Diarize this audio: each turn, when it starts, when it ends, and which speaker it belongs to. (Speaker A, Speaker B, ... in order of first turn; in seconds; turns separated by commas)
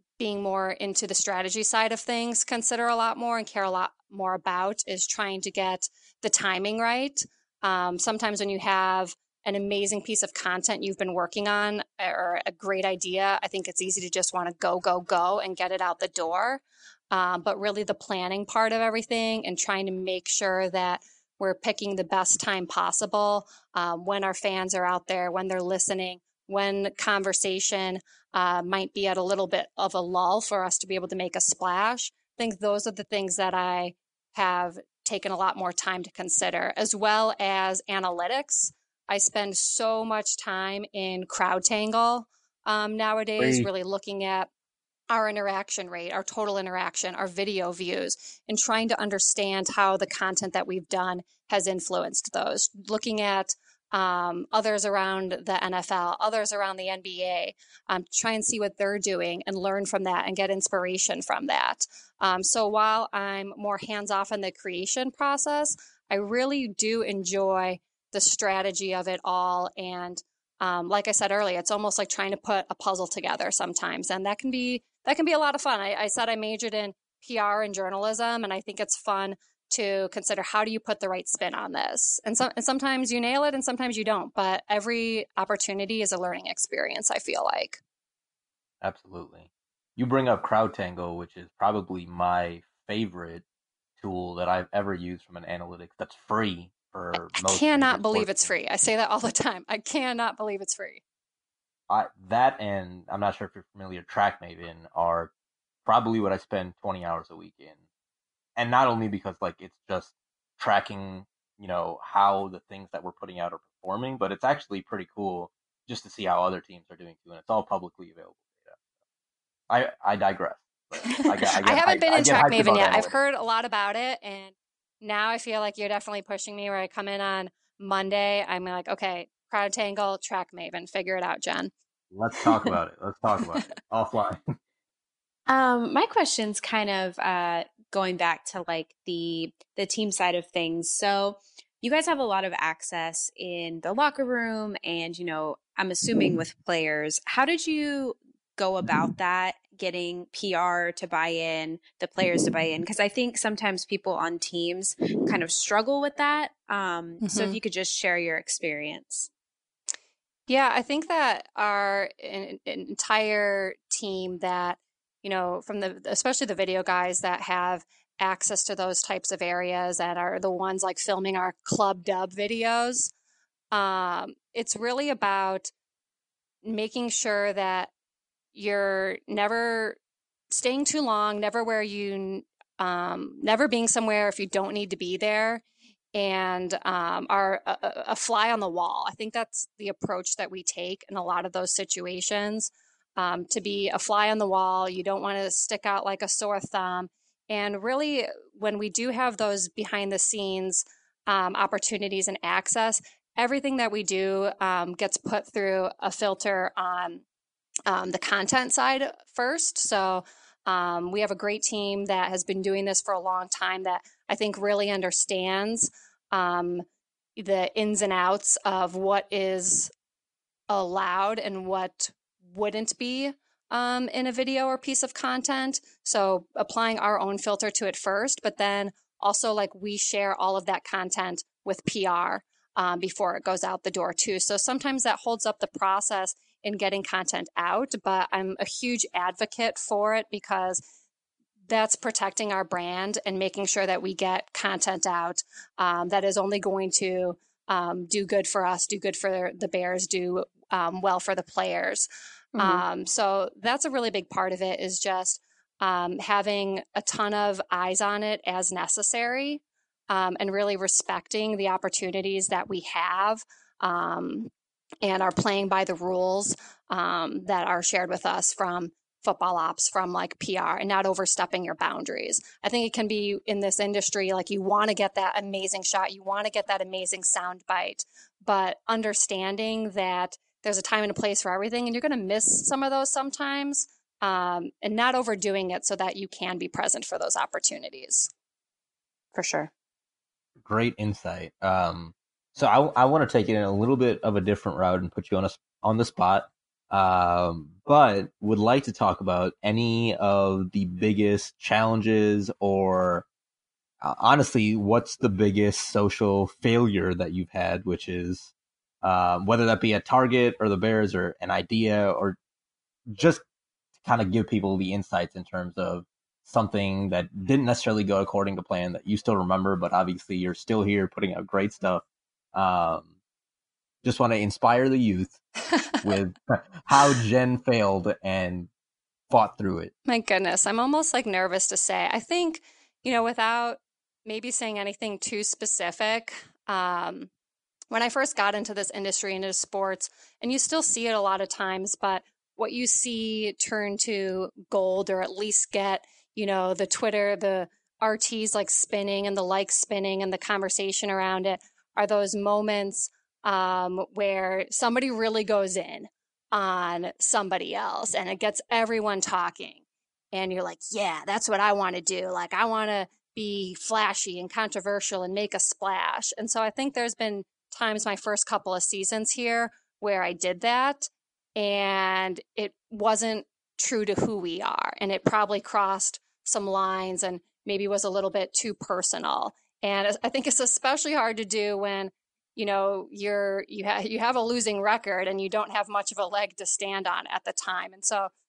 Speaker A: 0.2-44.5, Speaker A: 45.1-87.8, Speaker B: 88.8-93.4, Speaker B: 94.0-98.5, Speaker A: 97.3-101.0, Speaker B: 101.9-105.3, Speaker B: 105.8-107.8, Speaker B: 108.5-118.8, Speaker B: 119.7-123.2, Speaker A: 121.2-131.7, Speaker B: 132.1-134.4, Speaker C: 135.5-159.3, Speaker A: 157.2-157.6, Speaker A: 160.5-173.1, Speaker A: 173.7-175.7, Speaker A: 176.6-177.9, Speaker A: 178.5-180.0, Speaker A: 180.5-185.6, Speaker A: 186.1-207.2, Speaker A: 207.9-216.8, Speaker A: 217.3-219.9, Speaker A: 220.7-240.8, Speaker A: 241.7-264.5, Speaker C: 252.6-252.8, Speaker A: 265.0-288.3, Speaker C: 289.3-289.7, Speaker B: 290.6-303.2, Speaker B: 304.0-312.4, Speaker B: 313.1-313.4, Speaker B: 314.0-322.0, Speaker B: 322.5-323.1, Speaker B: 324.0-325.4, Speaker A: 325.7-326.0, Speaker B: 326.0-328.7, Speaker B: 329.3-329.9, Speaker A: 330.1-337.3, Speaker A: 337.9-359.8, Speaker A: 360.3-388.3